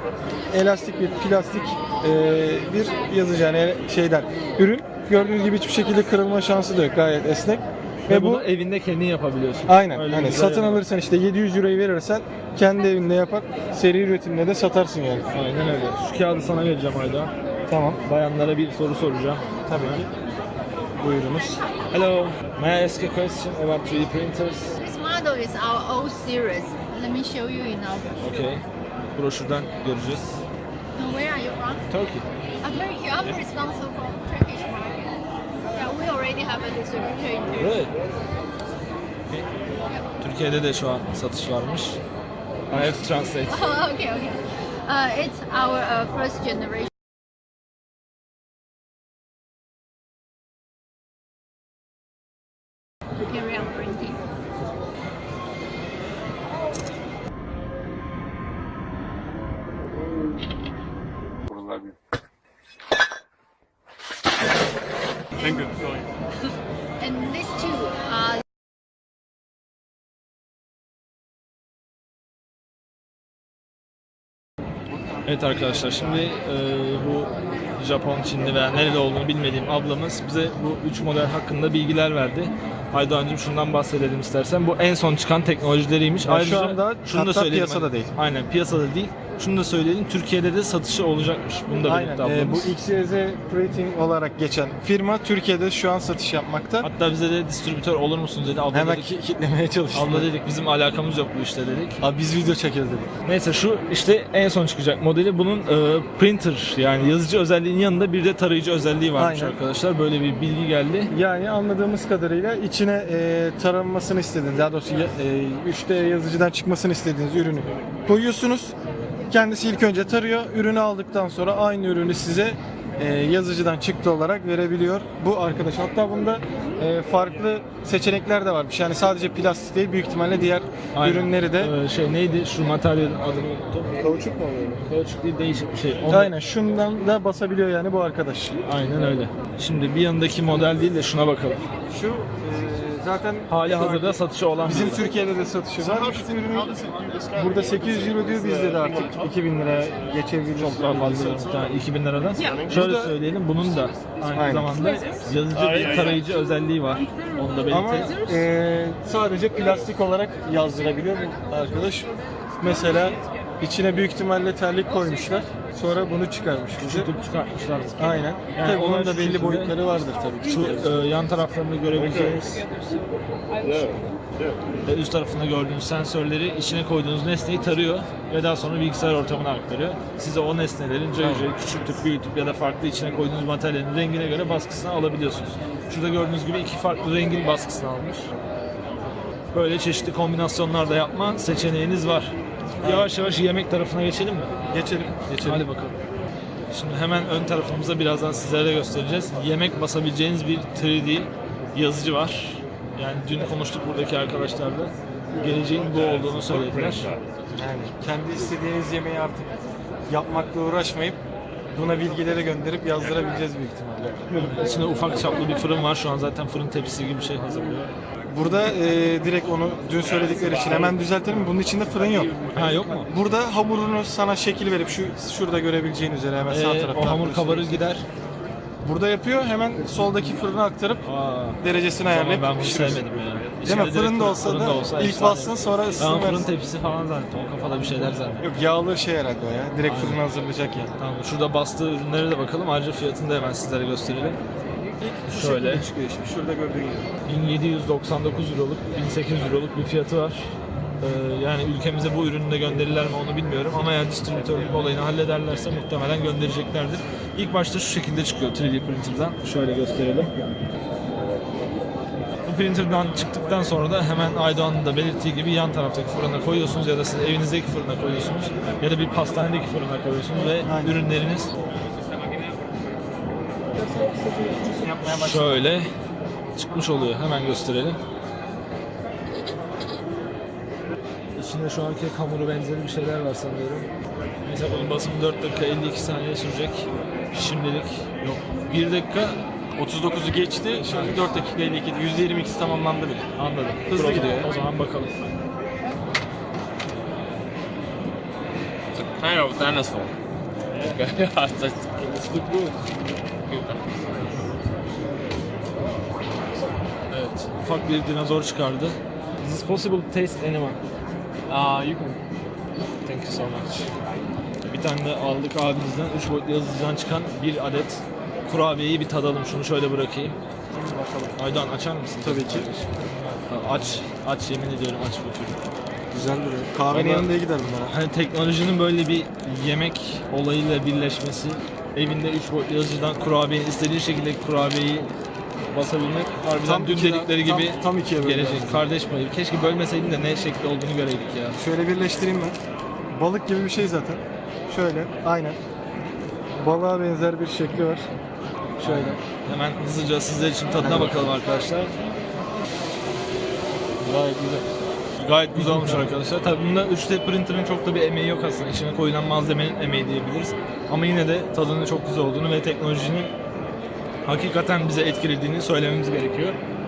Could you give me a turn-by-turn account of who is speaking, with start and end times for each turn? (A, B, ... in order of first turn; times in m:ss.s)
0:00.5-0:08.5 A
0:08.1-0:10.8 B
0:09.7-0:15.3 A
0:15.3-0:17.3 B
0:17.7-0:18.0 A
0:18.0-0:20.0 B
0:19.7-0:20.1 A
0:21.0-0:21.6 A
0:21.9-0:24.8 B
0:24.8-0:28.2 C
0:28.2-0:30.4 B
0:31.0-0:31.8 C
0:31.9-0:32.2 B
0:32.6-0:37.8 C
0:37.5-0:37.9 B
0:40.2-0:42.0 B
0:42.7-0:43.7 B
0:43.5-0:46.9 C
0:53.2-0:54.2 C
1:05.4-1:05.8 C
1:07.0-1:08.4 C
1:15.2-1:32.7 B
1:26.2-1:28.1 A
1:31.8-1:36.9 A
1:36.8-1:39.1 B
1:38.7-1:40.3 A
1:39.9-1:42.0 B
1:42.0-1:43.1 A
1:43.2-1:51.1 B
1:49.2-1:49.6 A
1:51.1-1:58.7 A
1:59.3-2:11.7 A
2:11.0-2:13.9 B
2:14.0-2:14.8 A
2:14.8-2:16.3 B
2:16.1-2:18.6 A
2:18.6-2:21.6 B
2:21.9-2:31.5 A
2:23.5-2:25.1 B
2:30.6-2:38.2 B
2:32.5-2:33.2 A
2:34.3-2:34.8 A
2:37.7-2:47.1 A
2:46.8-2:49.8 B
2:48.0-2:51.0 A
2:50.4-2:52.7 B
2:54.9-3:08.3 B
3:01.2-3:01.5 A
3:09.5-3:14.5 B
3:12.8-3:13.1 A
3:14.7-3:15.7 A
3:15.3-3:16.0 B
3:16.7-3:27.1 B
3:27.5-3:29.6 A
3:30.1-3:31.2 A
3:31.7-3:34.5 A
3:34.4-3:37.9 B
3:38.3-3:47.9 A
3:42.5-3:43.1 B
3:46.5-3:48.1 B
3:48.8-3:51.0 A
3:51.0-3:58.4 B
3:51.6-3:53.1 A
3:53.6-3:56.5 A
3:58.4-4:01.0 A
3:59.9-4:00.2 B
4:01.0-4:04.4 B
4:05.0-4:07.1 A
4:05.3-4:05.9 B
4:07.3-4:20.3 B
4:22.4-4:31.5 B
4:30.6-4:31.0 A
4:34.6-4:35.7 A
4:35.0-4:35.9 B
4:36.6-4:38.0 B
4:41.4-4:43.9 B
4:44.4-4:49.4 B
4:49.8-4:53.2 A
4:50.7-4:51.3 B
4:53.4-4:55.1 B
4:53.9-4:54.5 A
4:59.0-5:00.1 D
5:00.8-5:02.7 D
5:03.5-5:03.8 D
5:07.1-5:10.8 B
5:11.5-5:12.2 D
5:13.0-5:13.9 B
5:14.6-5:20.4 B
5:20.7-5:21.4 A
5:21.4-5:25.6 B
5:22.2-5:22.7 A
5:26.1-5:28.0 A
5:26.9-5:27.3 B
5:27.9-5:35.1 B
5:35.7-5:41.6 B
5:36.6-5:38.9 A
5:41.6-5:42.6 A
5:43.1-5:45.6 A
5:46.6-5:48.1 A
5:48.8-5:52.0 B
5:48.8-5:49.2 A
5:50.7-5:51.4 A
5:54.0-5:54.7 A
5:55.2-6:03.3 B
5:55.5-5:56.1 A
6:04.2-6:06.6 B